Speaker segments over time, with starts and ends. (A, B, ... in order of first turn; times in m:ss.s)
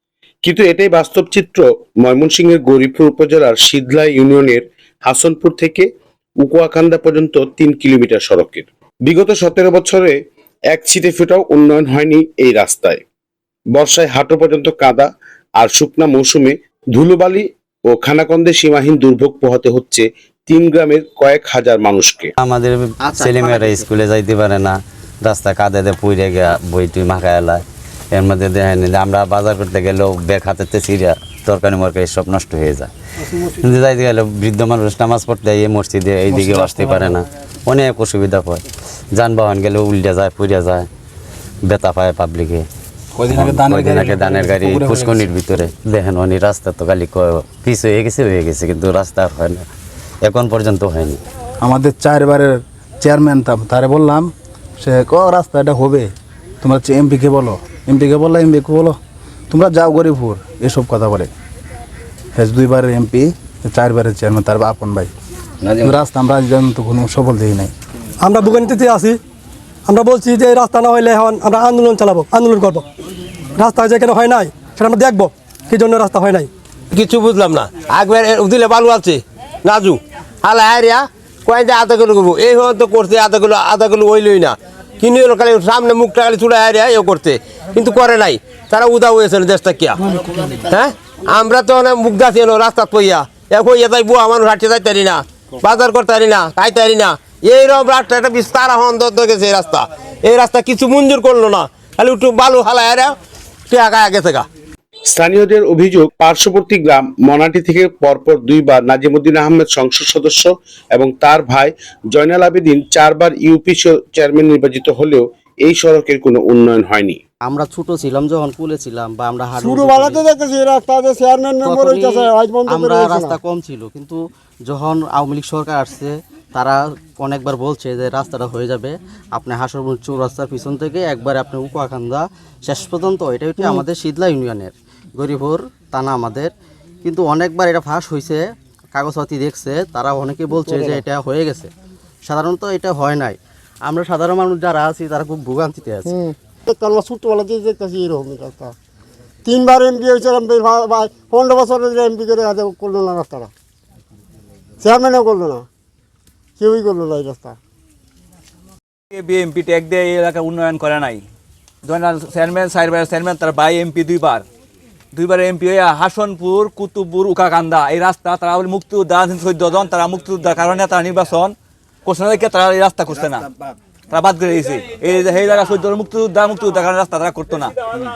0:00.4-0:05.9 A
0:06.4-0:10.2 A
0:10.7-0:13.0 A
0:13.7-0:22.3 A
0:22.4-0:32.9 B
0:23.0-0:23.9 C
0:33.5-0:38.6 B
0:36.3-0:37.2 D
0:39.2-0:40.9 B
0:41.7-0:42.7 B
0:43.1-0:45.3 D
0:43.3-0:49.7 B
0:50.2-0:51.2 B
0:51.6-0:56.1 D
0:56.6-0:59.0 D
0:59.5-1:01.3 D
1:02.4-1:05.1 D
1:05.8-1:07.7 D
1:08.2-1:09.2 E
1:09.9-1:12.8 E
1:13.6-1:16.5 E
1:16.9-1:30.0 F
1:30.7-1:43.1 F
1:43.7-1:44.4 F
1:45.1-1:57.2 A
1:57.5-2:00.3 C
1:59.6-2:03.4 G
2:01.6-2:16.5 C
2:17.0-2:21.7 C
2:22.3-2:26.2 C
2:26.1-2:28.7 G
2:29.4-2:33.5 G
2:34.8-2:35.6 G
2:36.6-2:37.6 G
2:39.1-2:41.2 H
2:41.9-2:44.4 H
2:45.1-2:53.5 H
2:54.1-2:57.8 H